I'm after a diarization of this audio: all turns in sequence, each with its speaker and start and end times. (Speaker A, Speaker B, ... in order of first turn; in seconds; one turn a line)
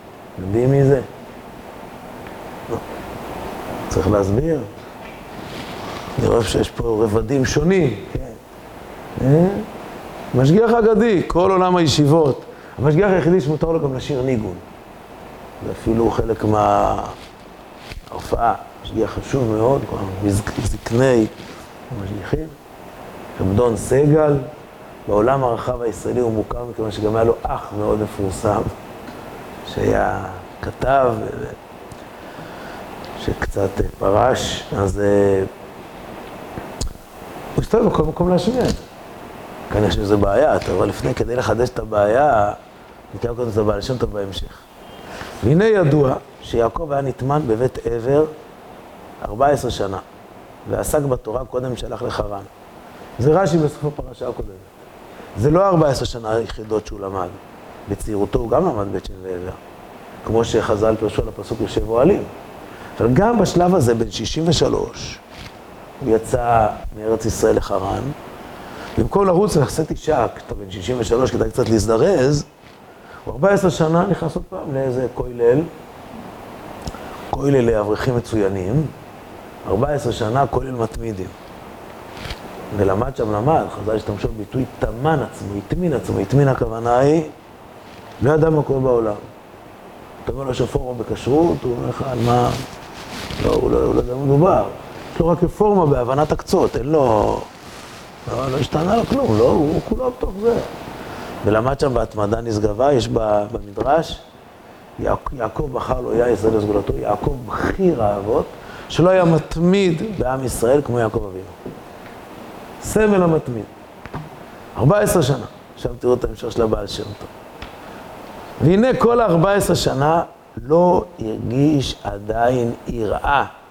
Speaker A: 0.4-1.1
Speaker A: 3.9-4.7
Speaker A: 6.2-8.4
Speaker A: 9.2-9.7
Speaker A: 10.3-14.6
Speaker A: 15.6-17.1
Speaker A: 18.1-21.3
Speaker A: 21.9-22.6
Speaker A: 23.4-24.5
Speaker A: 25.1-28.7
Speaker A: 29.7-31.6
Speaker A: 33.2-35.5
Speaker A: 37.5-38.8
Speaker A: 39.7-42.6
Speaker A: 43.1-44.6
Speaker A: 45.4-48.3
Speaker A: 49.2-50.0
Speaker A: 50.6-52.5
Speaker A: 53.2-54.7
Speaker A: 55.4-59.6
Speaker A: 60.2-62.3
Speaker A: 63.0-65.2
Speaker A: 66.0-68.1
Speaker A: 69.0-72.5
Speaker A: 73.2-75.7
Speaker A: 77.3-78.9
Speaker A: 79.6-81.3
Speaker A: 82.7-87.3
Speaker A: 88.2-89.2
Speaker A: 90.2-92.6
Speaker A: 93.4-97.5
Speaker A: 98.3-100.7
Speaker A: 101.4-104.2
Speaker A: 105.0-111.5
Speaker A: 112.8-113.7
Speaker A: 114.8-117.3
Speaker A: 118.6-123.5